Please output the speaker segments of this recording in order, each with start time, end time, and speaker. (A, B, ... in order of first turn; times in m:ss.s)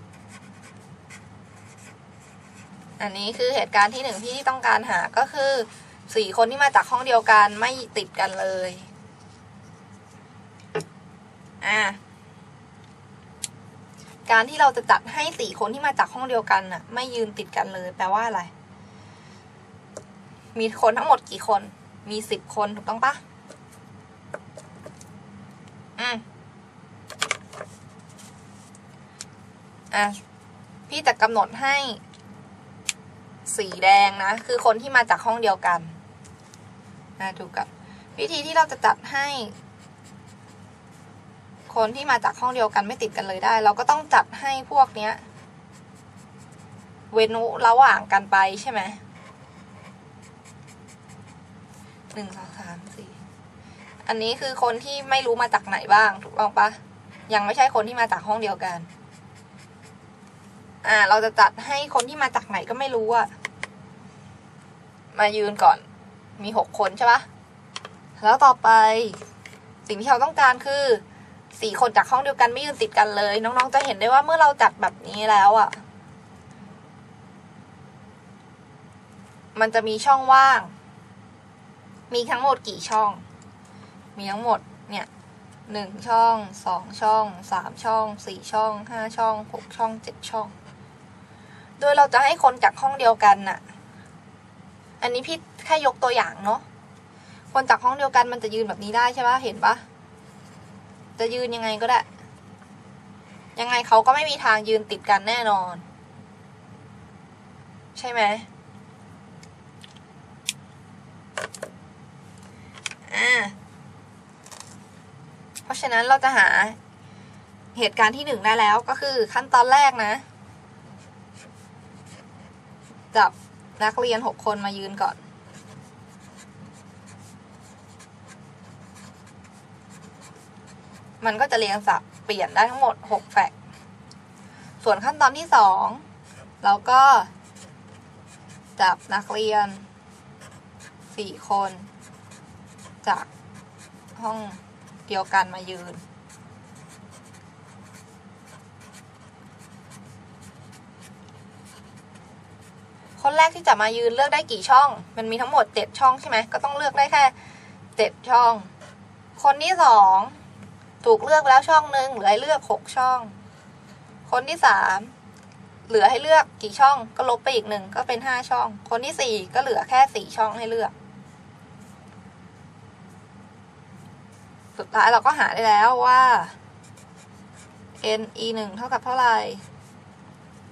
0:03.0-0:08.9 A
0:11.6-0:12.0 A
0:14.3-0:18.5 A
0:20.5-0:23.2 A
0:26.0-0:26.2 A
0:29.9-0:30.2 A
0:30.9-0:32.0 A
0:33.4-0:35.9 A
0:37.2-0:39.5 A
0:41.7-0:45.2 A
0:47.1-0:49.0 A
0:52.1-0:53.2 A
0:54.0-0:56.8 A
0:57.3-0:58.9 A
1:00.8-1:03.3 A
1:05.1-1:05.8 A
1:06.4-1:07.2 A
1:08.2-1:09.2 A
1:09.8-1:15.8 A
1:19.5-1:20.7 A
1:22.1-1:23.2 A
1:24.2-1:25.1 A
1:25.7-1:30.5 A
1:31.8-1:33.6 A
1:35.0-1:36.6 A
1:37.5-1:39.8 A
1:41.2-1:42.0 A
1:43.6-1:45.8 A
1:47.9-1:48.5 A
1:53.1-1:53.6 A
1:55.6-1:56.8 A
1:57.7-2:00.2 A
2:03.1-2:05.2 A
2:11.2-2:13.5 A
2:14.8-2:16.0 A
2:16.6-2:17.3 A
2:18.8-2:19.8 A
2:21.1-2:21.9 A
2:24.2-2:26.0 A
2:33.2-2:37.3 A
2:38.0-2:38.7 A
2:39.4-2:40.4 A
2:41.0-2:43.4 A
2:44.3-2:45.1 A
2:45.9-2:50.9 A
2:54.8-2:56.5 A
2:58.0-2:59.6 A